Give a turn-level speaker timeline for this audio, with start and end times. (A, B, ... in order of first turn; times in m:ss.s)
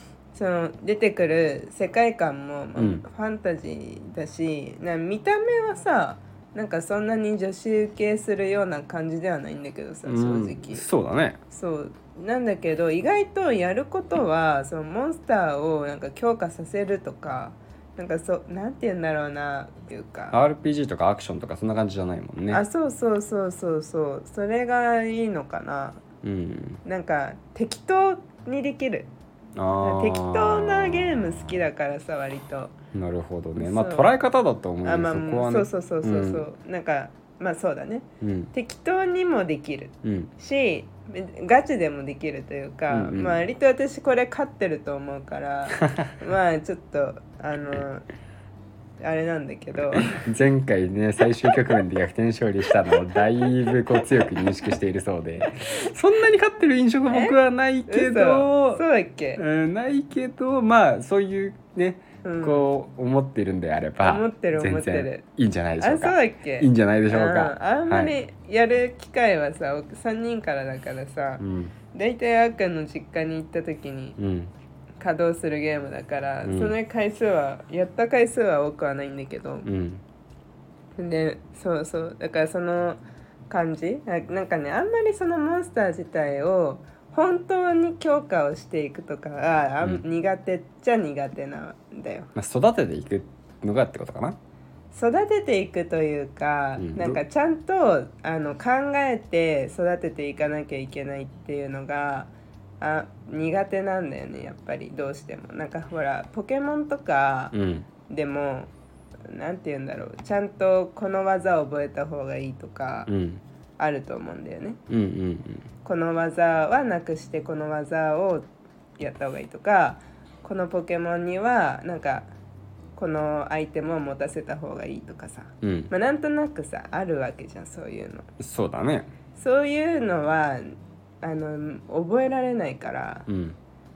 0:00.3-0:10.8 A
0:02.8-0:03.0 B
0:10.0-0:11.4 B
0:11.5-0:20.4 A
0:20.3-0:22.6 B
0:22.5-0:26.0 A
0:26.2-0:26.8 B
0:26.8-0:29.1 A
0:29.6-0:31.3 B
0:29.8-0:32.7 A
0:32.9-0:36.4 B
0:33.6-0:34.1 A
0:34.8-0:48.0 A
0:38.2-0:38.5 B
0:40.0-0:40.3 B
0:42.9-0:43.4 B
0:45.8-0:46.1 B
0:49.0-0:50.2 A
0:49.7-0:58.8 B
0:52.7-0:54.4 A
0:57.1-0:59.4 A
0:59.4-1:08.1 B
1:02.2-1:02.7 A
1:04.0-1:05.2 A
1:05.8-1:14.2 A
1:11.4-1:11.7 B
1:14.2-1:14.5 B
1:15.0-1:19.7 A
1:16.4-1:16.7 B
1:19.6-1:20.0 B
1:21.0-1:32.3 A
1:32.3-1:34.4 B
1:34.9-1:47.5 A
1:36.8-1:37.2 B
1:47.5-1:47.9 B
1:48.1-1:48.7 A
1:49.3-1:53.1 A
1:53.1-1:53.4 B
1:53.8-1:54.8 A
1:54.9-1:55.7 B
1:55.8-2:02.3 A
2:03.0-2:08.2 A
2:05.6-2:05.9 B
2:08.4-2:09.1 B
2:09.4-2:13.3 A
2:13.3-2:13.6 B